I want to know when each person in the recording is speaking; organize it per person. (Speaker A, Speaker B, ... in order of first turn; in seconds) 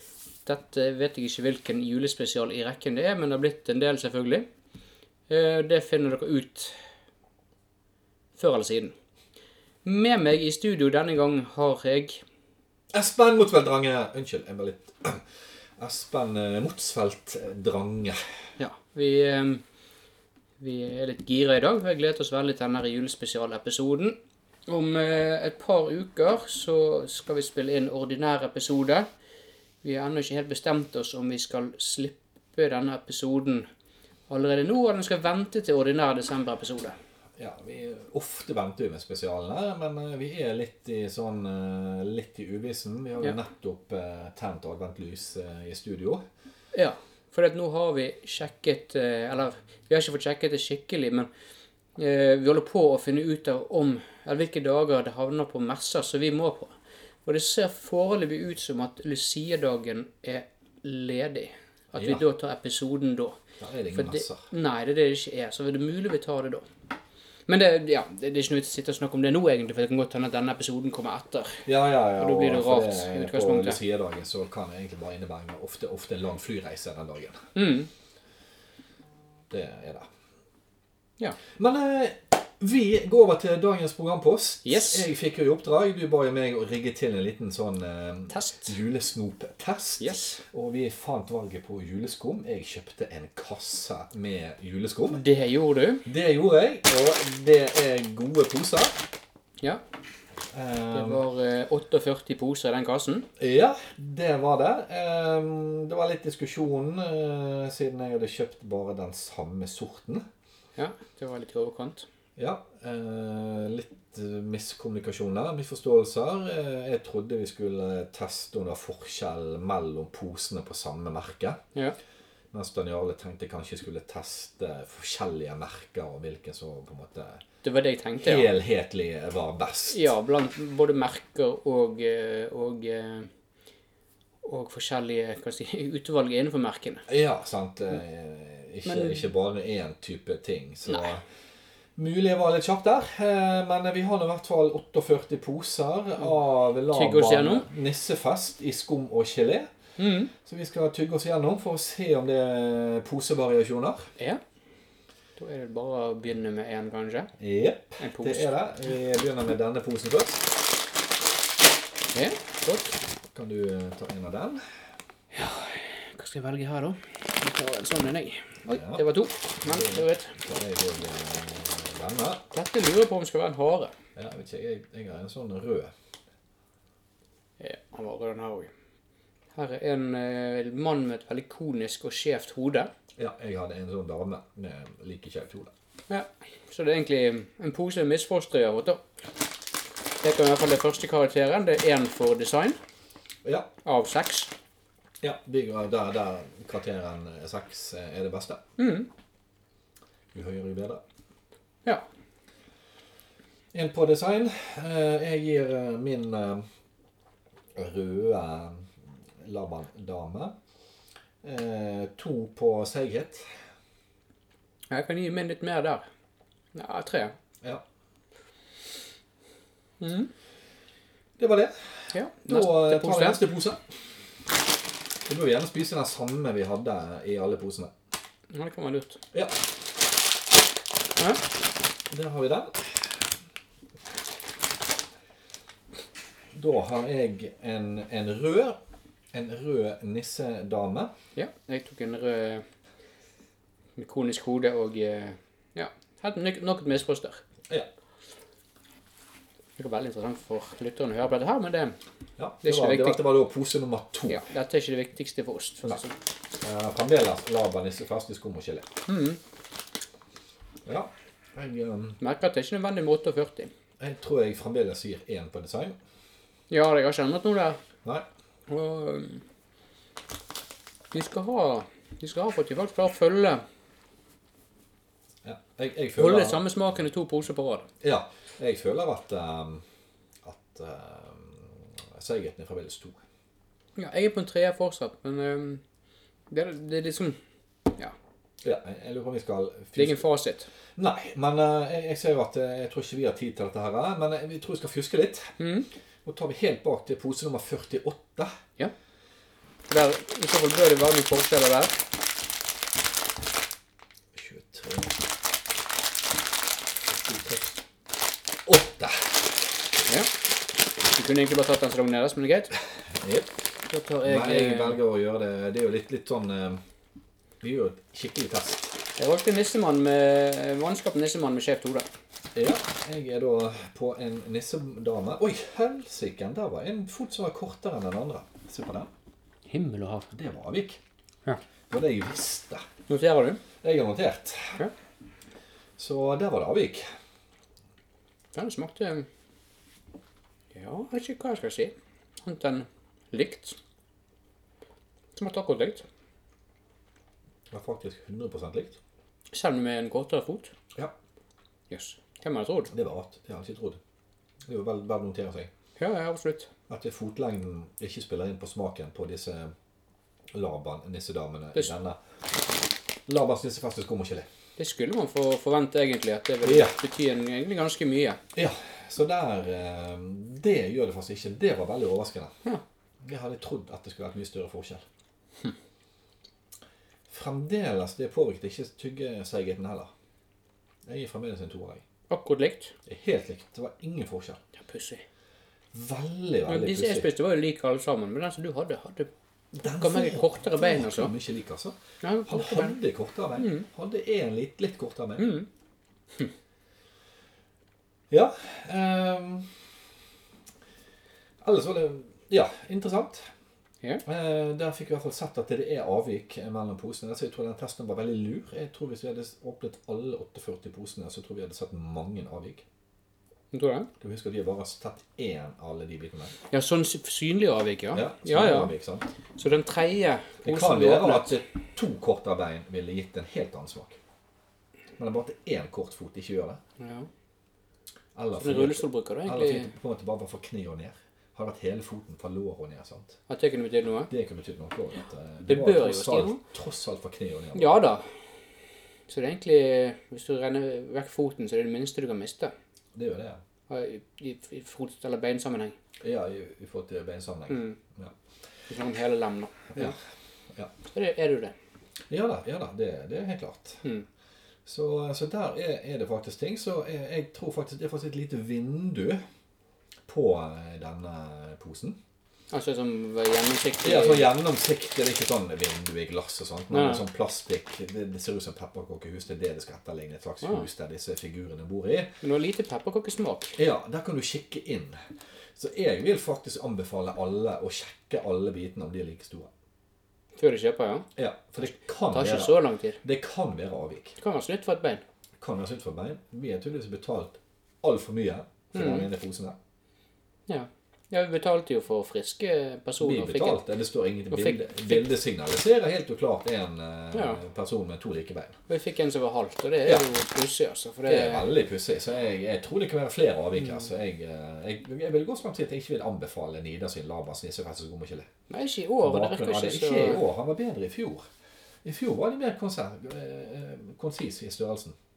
Speaker A: 0.5-4.5, 5.3-6.8, 8.3-8.9, 9.8-12.2, 18.6-19.6, 20.6-29.1, 29.8-33.7, 34.3-37.0, 46.7-51.3, 52.0-63.4, 63.9-66.7, 67.5-73.8, 77.5-77.9, 84.7-85.1, 88.3-88.8, 90.0-90.4, 95.1-96.1, 100.9-103.3, 110.8-112.1, 127.6-128.5, 129.9-133.3, 134.4-137.1, 138.8-139.3, 146.9-147.7, 150.0-150.3, 155.4-157.3, 158.0-158.5, 162.1-162.9, 165.3-170.4, 172.5-173.9, 177.6-178.7, 179.6-182.9, 186.1-189.0, 190.2-192.8, 193.8-194.5, 198.8-199.1, 214.9-216.0, 216.7-217.3, 220.0-220.3, 222.1-223.4, 228.5-229.2, 241.3-242.6, 244.0-247.4, 249.8-252.0, 252.6-253.3, 254.3-256.1, 259.1-259.4, 262.2-263.7, 266.7-267.8, 268.7-269.4, 271.1-273.6, 276.2-277.9, 284.0-285.8, 286.5-287.4, 290.0-290.7, 295.6-295.9, 299.9-302.0, 311.1-312.7, 313.9-315.0, 319.2-322.1, 329.7-330.3, 333.1-333.6, 338.6-339.3, 340.7-343.8, 345.4-346.1, 349.5-350.7, 351.9-352.9, 356.0-356.7, 364.8-368.4, 382.3-382.9, 384.8-385.2, 386.7-391.4, 392.2-393.0, 393.6-393.9, 395.4-395.7, 413.7-414.1, 416.7-418.9, 419.6-421.6, 427.0-427.3, 428.6-429.9, 433.5-434.3, 435.7-436.6, 437.8-438.2, 439.3-442.7, 443.9-445.9, 447.7-448.0, 448.9-450.2, 451.1-451.7, 462.7-464.6, 466.9-467.2, 470.6-470.9, 472.4-473.8, 480.6-481.3, 481.8-483.2, 484.4-485.2, 488.9-489.3, 490.7-493.9, 494.5-495.4, 497.3-497.6, 498.9-501.7, 508.7-510.5
Speaker B: 12.9-15.2, 15.8-18.2, 37.4-46.2, 62.0-62.2, 63.6-64.4, 71.7-77.5, 79.5-80.1, 81.6-95.2, 96.1-99.0, 100.5-101.3, 103.4-110.2, 112.4-121.6, 122.5-127.4, 128.2-130.1, 137.1-141.2, 142.0-149.7, 150.4-154.1, 157.4-160.5, 163.3-164.6, 168.7-169.0, 169.6-172.4, 174.2-175.9, 183.2-185.7, 195.2-198.6, 200.3-201.0, 203.7-206.6, 207.8-208.9, 209.4-210.6, 211.4-213.5, 221.4-223.8, 225.3-227.9, 232.1-233.0, 236.6-238.8, 239.3-241.1, 252.4-254.5, 256.6-258.9, 260.9-262.2, 264.0-266.0, 275.4-276.6, 278.0-279.8, 280.4-283.2, 288.6-290.3, 291.0-295.6, 296.3-298.5, 304.4-305.1, 307.1-307.7, 308.7-309.3, 313.1-313.5, 314.2-316.8, 317.6-319.0, 322.6-329.1, 330.3-331.0, 331.9-332.9, 333.8-334.8, 336.0-337.1, 347.7-349.0, 352.9-354.0, 354.7-355.7, 356.9-359.7, 360.5-362.2, 363.3-364.5, 366.6-367.0, 368.6-372.5, 373.2-375.0, 377.3-380.1, 381.1-382.0, 383.1-384.6, 385.9-387.3, 389.7-395.6, 398.3-399.7, 401.6-403.4, 404.2-412.8, 414.2-416.5, 418.1-419.3, 420.6-424.2, 425.2-426.8, 428.4-433.4, 434.3-438.0, 443.1-443.6, 446.2-448.3, 452.3-454.1, 454.9-459.4, 460.3-462.2, 464.0-472.3, 473.8-475.2, 475.8-479.7, 481.4-484.4, 485.6-489.8, 493.2-498.8, 501.3-508.5, 509.2-511.4, 512.0-515.1